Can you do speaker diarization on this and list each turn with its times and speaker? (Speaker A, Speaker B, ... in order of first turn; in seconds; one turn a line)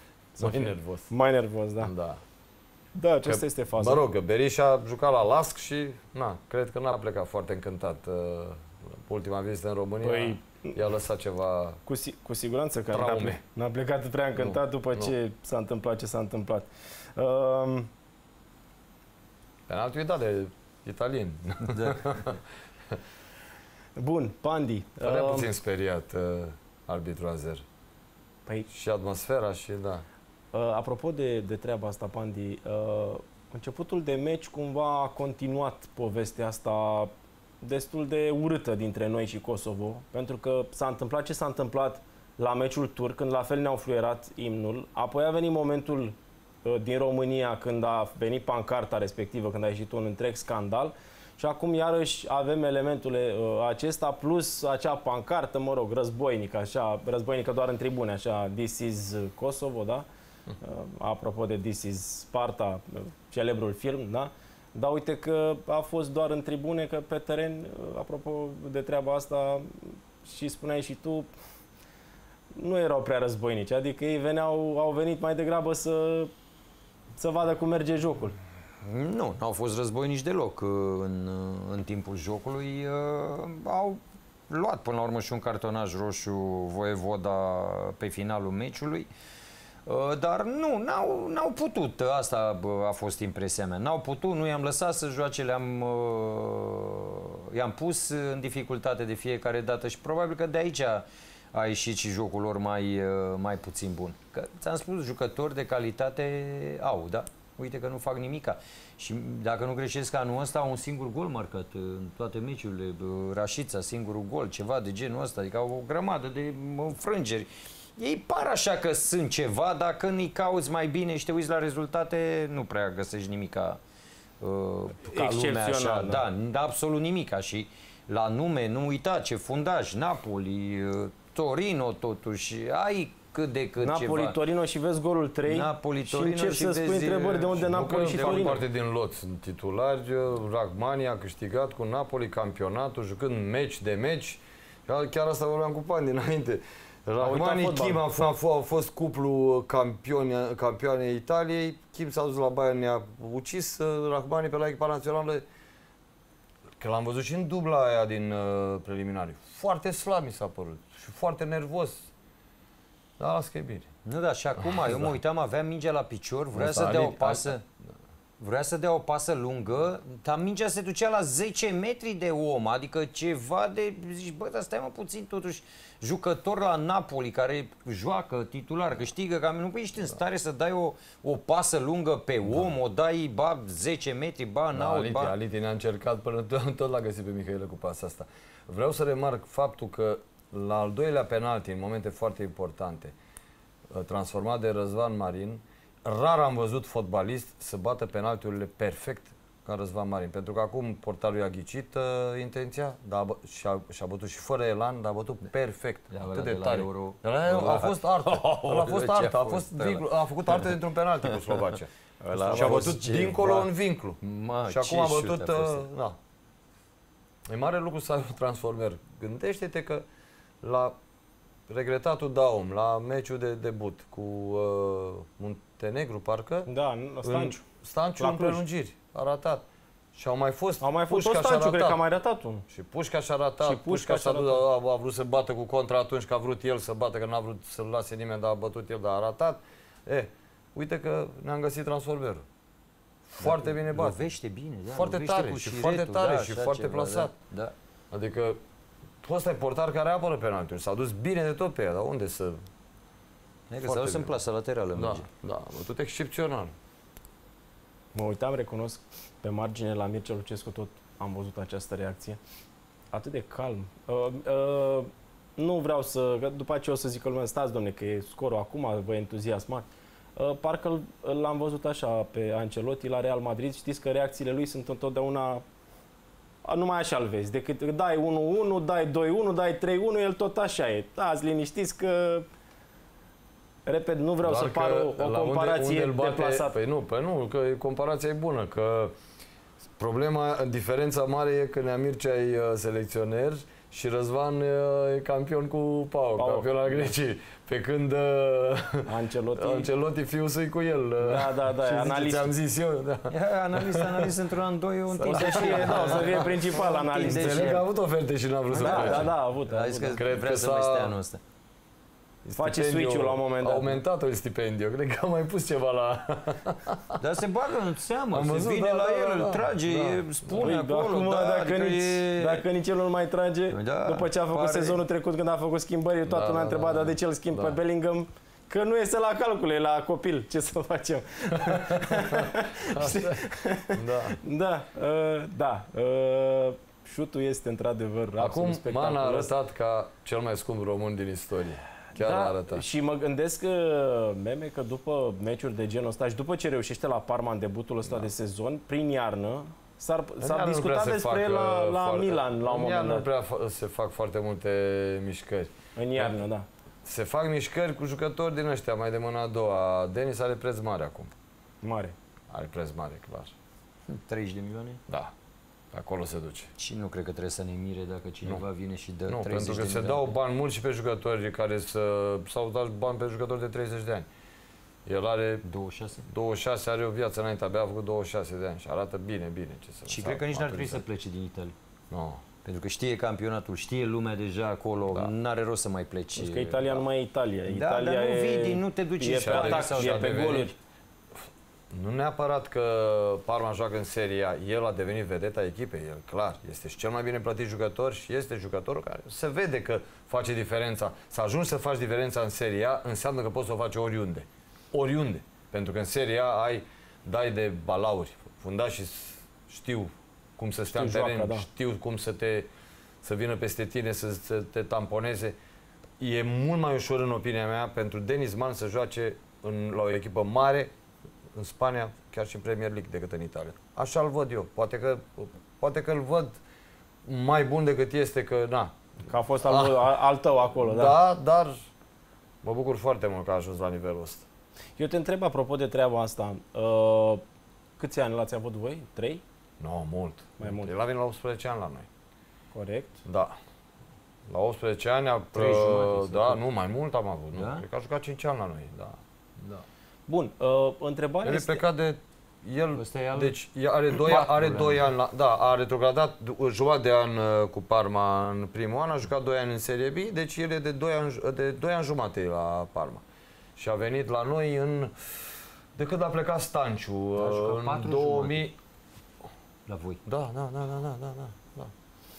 Speaker A: 0.4-1.9
Speaker B: 0.4-1.1
Speaker B: 1.8-2.2
Speaker A: 3.0-4.0
Speaker B: 3.2-11.8
Speaker A: 10.0-10.8
Speaker A: 11.9-17.9
Speaker B: 12.9-13.4
Speaker B: 14.4-15.1
Speaker B: 19.7-22.4
Speaker C: 21.7-22.0
Speaker A: 24.0-25.5
Speaker B: 25.0-27.6
Speaker B: 28.7-30.1
Speaker A: 30.5-60.1
Speaker A: 60.6-71.3
Speaker A: 72.5-76.3
Speaker A: 77.2-78.3
Speaker C: 78.8-89.1
Speaker C: 89.9-123.8
Speaker C: 124.4-134.4
Speaker A: 125.1-126.2
Speaker A: 133.8-138.6
Speaker C: 135.4-138.6
Speaker B: 137.6-155.4
Speaker A: 147.2-148.0
Speaker B: 156.8-162.1
Speaker B: 163.2-163.9
Speaker C: 164.1-167.6
Speaker B: 164.6-165.1
Speaker B: 166.6-167.6
Speaker C: 168.4-185.3
Speaker B: 184.7-193.1
Speaker B: 193.9-216.2
Speaker C: 206.1-213.7
Speaker C: 214.2-215.9
Speaker B: 217.5-220.0
Speaker B: 220.6-221.0
Speaker B: 221.7-226.7
Speaker A: 226.7-227.6
Speaker B: 227.2-229.6
Speaker A: 228.2-228.6
Speaker B: 230.2-232.0
Speaker A: 230.8-232.6
Speaker B: 232.7-242.4
Speaker A: 233.6-234.6
Speaker B: 243.3-244.2
Speaker C: 243.4-247.8
Speaker B: 244.9-247.3
Speaker B: 248.1-248.6
Speaker B: 249.2-252.6
Speaker C: 253.7-255.2
Speaker B: 253.8-254.4
Speaker B: 255.0-256.7
Speaker A: 258.1-262.4
Speaker A: 263.1-269.9
Speaker A: 270.4-275.6
Speaker A: 276.6-282.5
Speaker A: 283.9-286.8
Speaker B: 284.4-289.1
Speaker B: 290.0-304.4
Speaker A: 296.4-297.1
Speaker A: 299.1-299.9
Speaker A: 301.2-302.5
Speaker C: 303.3-307.9
Speaker A: 305.1-307.8
Speaker B: 305.2-306.5
Speaker B: 307.2-309.3
Speaker A: 308.7-310.2
Speaker C: 308.8-311.4
Speaker B: 310.1-311.2
Speaker B: 312.4-317.2
Speaker A: 312.6-314.0
Speaker C: 317.2-322.6
Speaker B: 318.3-320.7
Speaker A: 320.6-339.5
Speaker C: 323.7-325.0
Speaker B: 326.3-327.8
Speaker B: 331.6-334.4
Speaker B: 338.4-342.9
Speaker A: 342.1-353.3
Speaker B: 350.4-356.4
Speaker A: 356.0-356.7
Speaker B: 357.1-361.3
Speaker A: 361.8-362.1
Speaker B: 362.5-363.5
Speaker C: 364.1-365.0
Speaker B: 365.9-366.7
Speaker C: 366.8-370.4
Speaker B: 369.3-374.3
Speaker B: 375.1-375.6
Speaker C: 375.6-376.2
Speaker B: 376.3-381.0
Speaker C: 380.1-381.8
Speaker B: 382.1-382.4
Speaker C: 382.6-387.1
Speaker A: 386.4-390.8
Speaker C: 387.7-390.5
Speaker B: 389.4-390.7
Speaker B: 391.9-412.7
Speaker A: 410.9-411.7
Speaker B: 413.2-415.6
Speaker B: 416.2-420.9
Speaker B: 421.6-426.6
Speaker B: 427.2-428.9
Speaker A: 429.3-431.1
Speaker B: 429.6-430.2
Speaker B: 430.8-431.9
Speaker B: 432.6-434.5
Speaker A: 435.0-437.4
Speaker A: 438.0-439.4
Speaker B: 439.8-442.1
Speaker A: 440.6-440.9
Speaker A: 442.7-443.2
Speaker B: 443.2-443.6
Speaker B: 444.5-449.8
Speaker C: 445.5-446.6
Speaker C: 447.5-447.9
Speaker A: 450.3-451.8
Speaker B: 451.4-463.2
Speaker C: 452.9-453.6
Speaker C: 454.2-455.0
Speaker B: 463.8-465.4
Speaker B: 465.9-468.8
Speaker C: 467.4-468.7
Speaker C: 469.9-470.2
Speaker B: 470.3-471.9